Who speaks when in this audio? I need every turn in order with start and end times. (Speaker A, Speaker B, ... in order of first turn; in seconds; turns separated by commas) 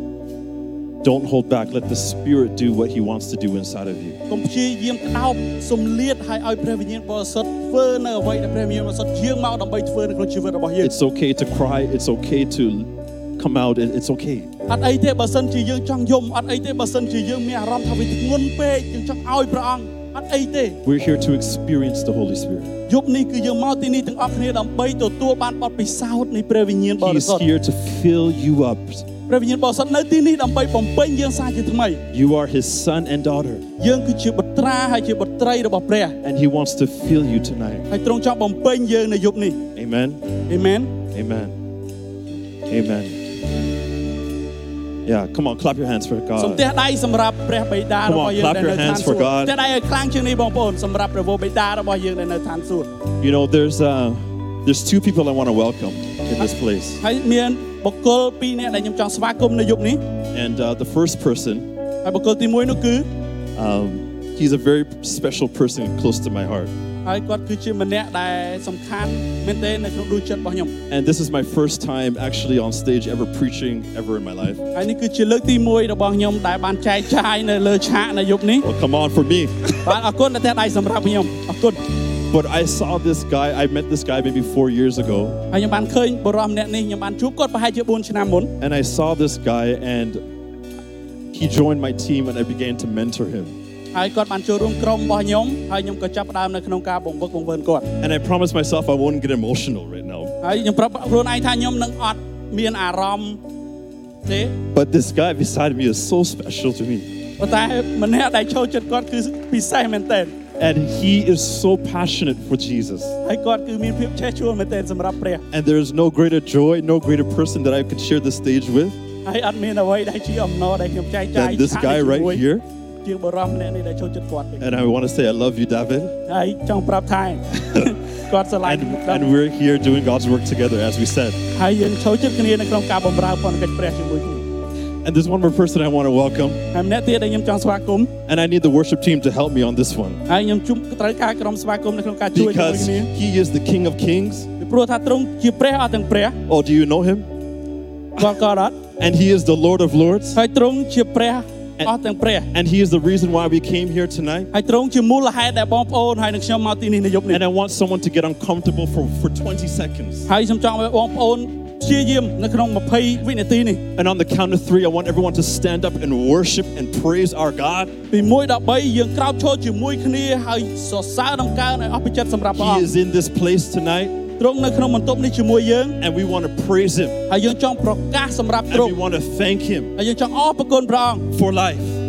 Speaker A: 1.0-4.2, Speaker B: 4.3-10.9, Speaker A: 10.8-14.5, Speaker B: 14.7-20.8, Speaker A: 20.8-22.7, Speaker B: 22.9-27.4, Speaker A: 27.0-29.1, Speaker B: 29.3-32.0, Speaker A: 32.1-33.6, Speaker B: 33.8-36.1, Speaker A: 36.2-37.9, Speaker B: 37.9-39.6, Speaker A: 39.7-40.2, Speaker B: 40.5-40.9, Speaker A: 41.1-41.5, Speaker A: 42.7-43.2, Speaker A: 45.0-46.6, Speaker B: 46.4-52.9, Speaker A: 48.0-49.5, Speaker A: 53.2-57.0, Speaker B: 57.0-60.0, Speaker A: 60.3-61.7, Speaker B: 62.0-63.1, Speaker A: 63.6-66.7, Speaker B: 67.0-70.7, Speaker A: 70.9-74.6, Speaker B: 74.7-78.7, Speaker A: 78.6-79.9, Speaker B: 79.8-81.8, Speaker A: 82.3-85.4, Speaker B: 85.5-88.5, Speaker A: 88.6-90.2, Speaker A: 91.3-93.5, Speaker B: 93.9-97.9, Speaker A: 98.0-100.3, Speaker B: 100.4-103.4, Speaker B: 104.2-104.5, Speaker A: 104.7-107.1, Speaker B: 107.4-110.3, Speaker A: 110.6-113.2, Speaker B: 113.2-115.4, Speaker A: 115.5-119.0, Speaker B: 119.2-122.4, Speaker A: 121.3-122.6, Speaker B: 123.0-124.6, Speaker A: 124.6-126.1, Speaker B: 126.3-129.3, Speaker A: 128.6-131.4, Speaker B: 131.5-134.4, Speaker A: 135.0-136.6, Speaker B: 136.7-138.1, Speaker A: 138.3-140.2, Speaker B: 140.3-143.1, Speaker A: 142.3-144.5, Speaker B: 144.6-146.3, Speaker A: 146.5-147.3, Speaker B: 148.2-148.8, Speaker A: 149.0-150.4, Speaker B: 150.3-152.5, Speaker A: 152.5-154.5, Speaker B: 154.5-157.4, Speaker A: 157.3-160.3, Speaker B: 160.3-163.8, Speaker A: 163.9-167.9, Speaker B: 168.1-172.9, Speaker A: 172.6-174.2, Speaker B: 174.4-176.0, Speaker A: 176.0-177.2, Speaker B: 177.3-178.9, Speaker A: 178.7-179.9, Speaker B: 180.0-181.3, Speaker A: 181.3-182.0